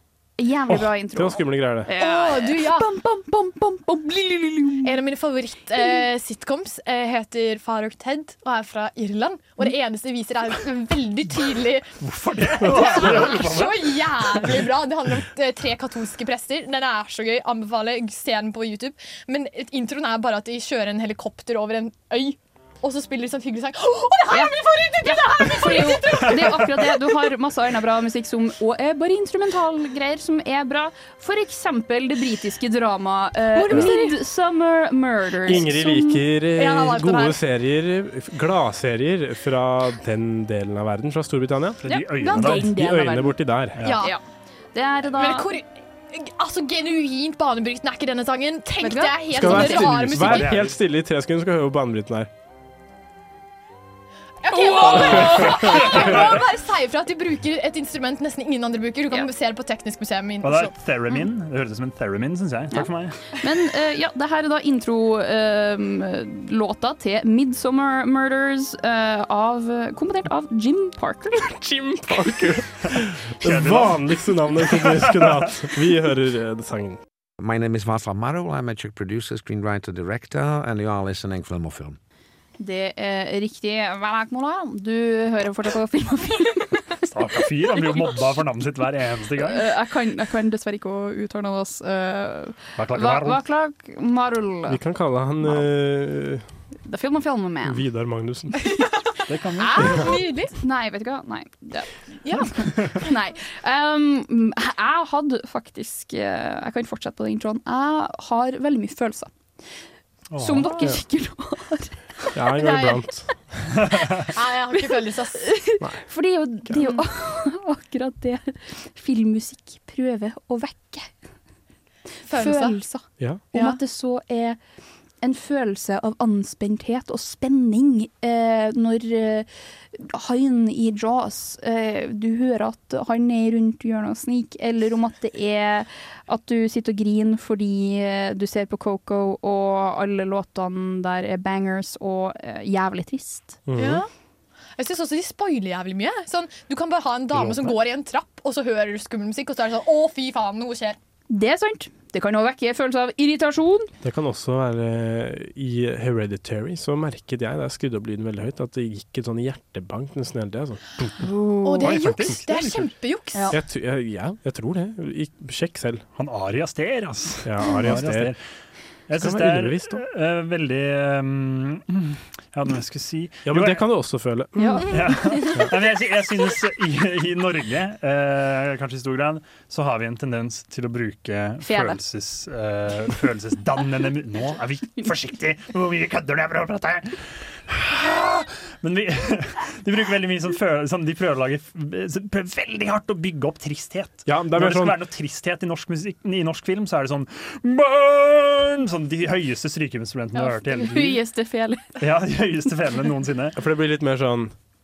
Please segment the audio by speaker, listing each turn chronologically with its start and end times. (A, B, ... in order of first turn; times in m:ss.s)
0:00.4-0:05.0 A
0:00.7-0:01.9 B
0:01.9-0:02.9 C
0:04.8-0:11.9 C
0:12.0-0:14.6 D
0:12.6-0:27.0 C
0:24.3-0:36.2 A
0:33.5-0:34.2 C
0:35.4-0:43.8 B
0:36.6-0:37.4 C
0:41.8-0:42.8 D
0:41.9-0:43.4 A
0:43.8-0:44.0 D
0:43.8-0:44.2 C
0:44.7-0:45.5 A
0:45.1-0:50.6 C
0:48.8-0:50.4 A
0:49.3-0:52.3 B
0:50.2-0:50.8 D
0:54.4-1:00.7 C
0:54.5-0:56.2 A
0:54.9-0:56.3 D
0:55.2-0:55.6 B
1:00.4-1:03.2 D
1:02.7-1:11.6 A
1:11.5-1:17.0 B
1:13.4-1:14.1 D
1:14.6-1:15.5 D
1:17.4-1:22.0 E
1:22.6-1:27.1 A
1:27.1-1:29.7 D
1:27.8-1:28.1 A
1:29.4-1:34.8 A
1:32.8-1:33.4 D
1:34.7-1:36.4 B
1:36.9-1:37.8 A
1:37.6-1:38.8 B
1:39.3-1:40.1 D
1:39.6-1:49.3 A
1:39.7-1:40.6 C
1:42.2-1:43.1 C
1:50.3-1:50.8 D
1:50.4-1:52.0 A
1:52.3-1:53.7 B
1:54.3-1:55.5 C
1:55.4-2:01.1 A
2:02.3-2:02.8 C
2:02.3-2:04.6 A
2:03.5-2:03.8 C
2:05.2-2:23.6 A
2:23.7-2:24.0 B
2:23.8-2:24.1 C
2:24.8-2:31.0 C
2:27.4-2:27.7 B
2:31.3-2:33.9 A
2:34.0-2:42.7 B
2:41.2-2:41.9 A
2:41.6-2:43.5 C
2:41.8-2:42.9 D
2:43.5-2:46.0 B
2:46.2-2:48.4 D
2:47.4-2:48.3 B
2:49.1-2:53.8 D
2:49.2-2:50.0 B
2:53.4-2:55.0 B
2:54.6-2:55.0 A
2:54.8-2:55.6 C
2:54.9-3:21.2 D
3:01.6-3:02.0 A
3:14.3-3:15.0 B
3:20.4-3:21.9 A
3:22.0-3:23.6 D
3:23.6-3:24.5 B